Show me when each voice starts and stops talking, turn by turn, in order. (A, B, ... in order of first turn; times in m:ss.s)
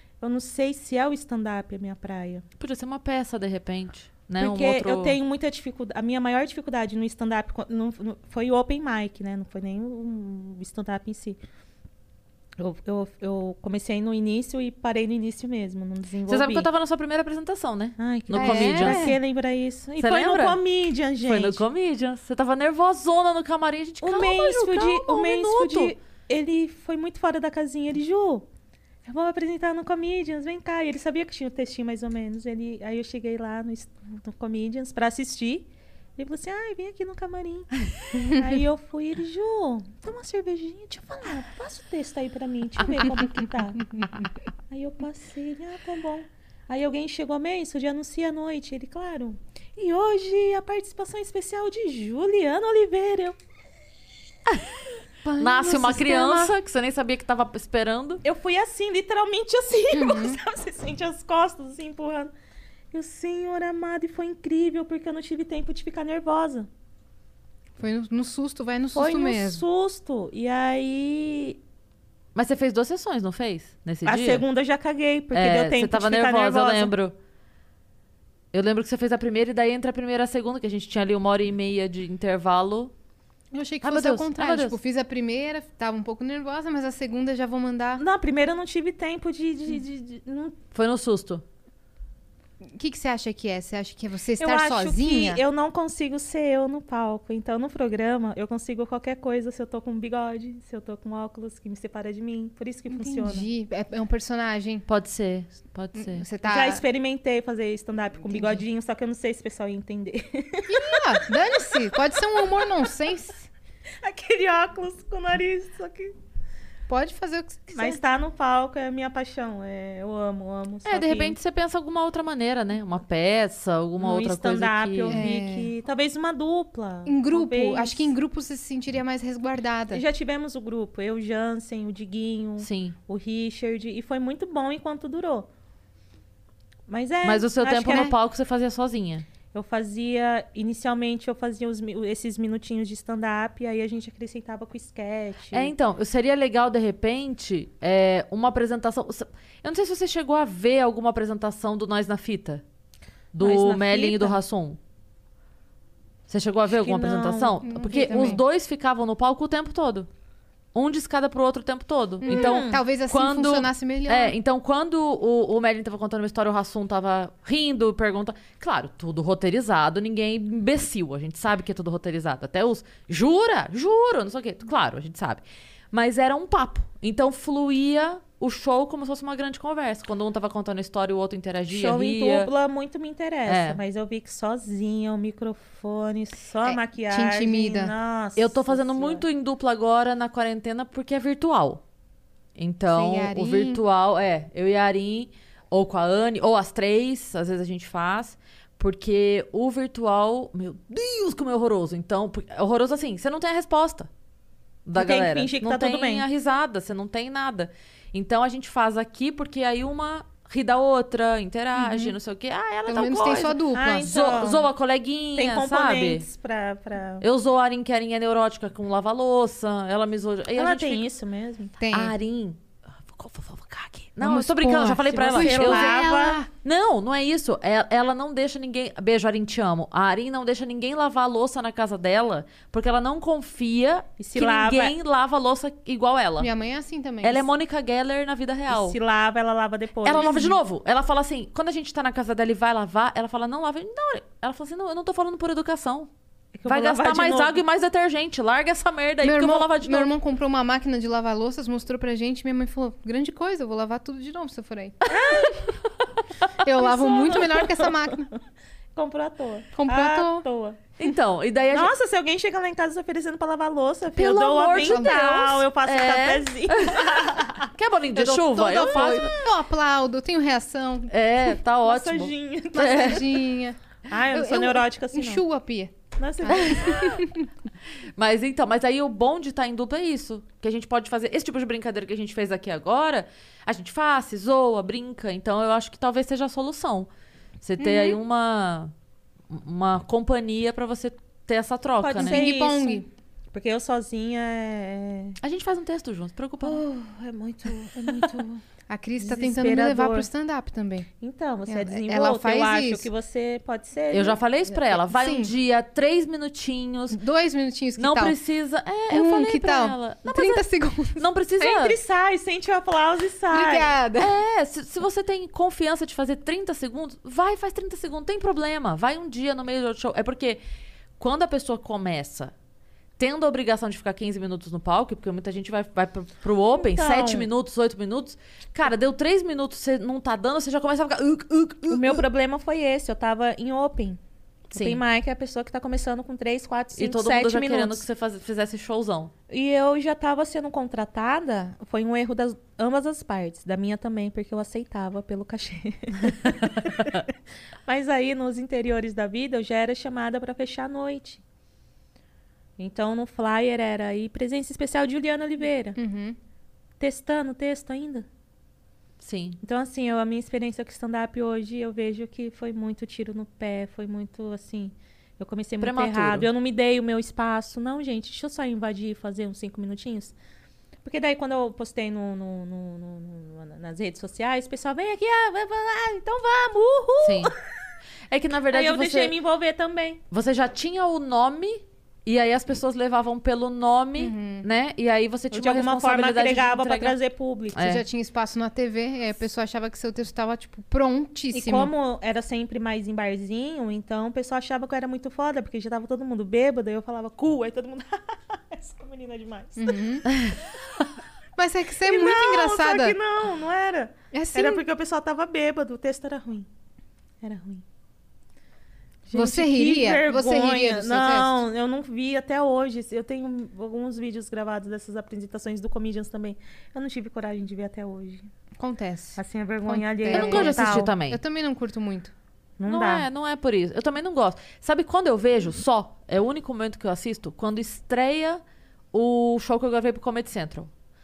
0:00.2-0:02.4 A
0:02.6-0:05.2 B
0:04.4-0:11.4 A
0:12.6-0:16.7 A
0:16.3-0:19.1 B
0:18.0-0:21.6 A
0:18.3-0:19.2 C
0:20.0-0:20.6 B
0:21.2-0:26.0 B
0:24.0-0:28.5 A
0:29.0-0:44.1 A
0:44.7-0:53.4 A
0:55.2-0:56.6 C
0:55.4-0:58.2 B
0:58.2-1:02.3 A
0:59.9-1:00.4 C
1:02.9-1:06.7 A
1:07.8-1:09.6 C
1:08.9-1:11.6 A
1:12.4-1:14.4 B
1:14.0-1:16.9 A
1:15.3-1:17.2 B
1:18.5-1:22.9 B
1:23.5-1:28.0 C
1:23.8-1:24.8 B
1:28.0-1:30.6 A
1:30.7-1:31.4 B
1:32.6-1:35.4 C
1:34.4-1:43.5 A
1:42.9-1:44.8 C
1:44.9-1:46.2 B
1:46.0-1:46.8 C
1:46.4-1:51.7 A
1:48.3-1:48.6 C
1:50.7-1:53.5 C
1:54.0-1:56.1 A
1:56.9-1:58.0 C
1:57.7-2:01.4 A
2:00.9-2:05.2 B
2:04.0-2:08.1 A
2:05.1-2:05.7 C
2:07.1-2:10.0 C
2:09.9-2:15.5 A
2:12.6-2:13.0 B
2:16.9-2:18.1 A
2:17.2-2:19.2 B
2:17.8-2:18.1 C
2:19.5-2:25.7 A
2:25.5-2:32.6 B
2:33.3-2:34.8 B
2:33.4-2:34.4 A
2:36.3-2:40.1 B
2:36.7-2:38.3 A
2:37.6-2:38.4 C
2:40.7-3:02.5 B
2:42.2-2:44.4 C
2:42.3-2:42.8 A
3:01.7-3:09.2 A
3:03.5-3:03.8 B
3:06.6-3:07.9 C
3:08.4-3:11.8 B
3:12.6-3:24.1 B
3:12.9-3:13.8 C
3:24.9-3:36.3 B
3:25.0-3:26.3 A
3:31.8-3:32.2 C
3:32.9-3:34.1 C
3:33.7-3:34.7 A
3:35.4-3:37.2 A
3:37.2-3:41.0 B
3:40.6-3:41.7 A
3:41.8-3:42.2 C
3:41.9-3:46.0 B
3:44.2-3:46.5 C
3:44.9-3:46.4 A
3:46.6-3:56.5 B
3:54.2-3:55.0 A
3:56.4-3:57.5 C
3:57.2-3:59.0 B
3:58.7-4:00.5 A
4:00.0-4:06.1 B
4:00.1-4:00.6 C
4:06.6-4:07.6 A
4:06.7-4:10.1 B
4:09.2-4:15.6 C
4:15.1-4:15.6 A
4:16.6-4:18.3 C
4:16.8-4:18.1 A
4:19.0-4:20.9 A
4:19.8-4:20.5 C
4:21.0-4:21.9 B
4:21.7-4:27.7 A
4:24.1-4:29.4 B
4:24.7-4:25.6 C
4:28.2-4:31.1 C
4:31.1-4:33.2 B
4:31.8-4:33.4 A
4:32.7-4:33.8 C
4:34.1-4:35.4 A
4:34.3-4:37.5 C
4:36.2-4:37.2 A
4:36.6-4:37.0 B
4:38.2-4:47.1 B
4:47.6-4:48.9 B
4:47.8-4:48.2 C
4:49.5-4:52.4 B
4:52.0-4:55.4 A
4:52.2-4:53.1 C
4:55.4-4:56.8 B
4:56.6-4:58.6 A
4:58.9-5:01.1 C
4:59.2-5:00.3 A
5:01.2-5:04.4 A
5:01.7-5:03.1 C
5:04.1-5:07.2 B
5:04.9-5:05.5 C
5:07.1-5:08.4 C
5:08.0-5:10.6 B
5:09.1-5:11.2 C
5:11.2-5:12.0 B
5:11.6-5:13.9 A
5:13.5-5:14.3 C
5:14.2-5:20.6 B
5:21.2-5:22.5 B
5:23.2-5:32.2 B
5:26.8-5:27.5 A
5:31.9-5:34.2 A
5:34.7-5:38.0 A
5:34.7-5:35.0 B
5:37.0-5:39.3 B
5:39.5-5:47.2 A
5:47.9-5:51.4 A
5:52.8-5:56.0 A
5:56.0-5:56.4 C
5:57.0-5:58.3 A
5:59.2-5:59.6 B
5:59.6-6:10.3 A
6:05.8-6:06.5 B
6:11.0-6:17.6 A
6:17.2-6:17.5 B
6:18.3-6:19.3 B
6:18.7-6:20.2 A
6:20.3-6:27.2 B
6:24.2-6:24.7 C
6:25.5-6:27.8 A
6:27.8-6:28.0 B
6:27.8-6:31.9 C
6:31.5-6:40.0 A
6:39.8-6:40.3 C
6:41.6-6:43.2 C
6:42.0-6:46.7 A
6:44.3-6:44.8 C
6:47.4-6:47.8 A
6:49.3-6:58.5 A
6:49.3-6:51.6 C
6:58.8-7:02.3 C
6:59.4-7:01.1 A
7:00.3-7:01.4 B
7:02.8-7:03.3 A
7:02.9-7:08.6 B
7:09.1-7:10.9 B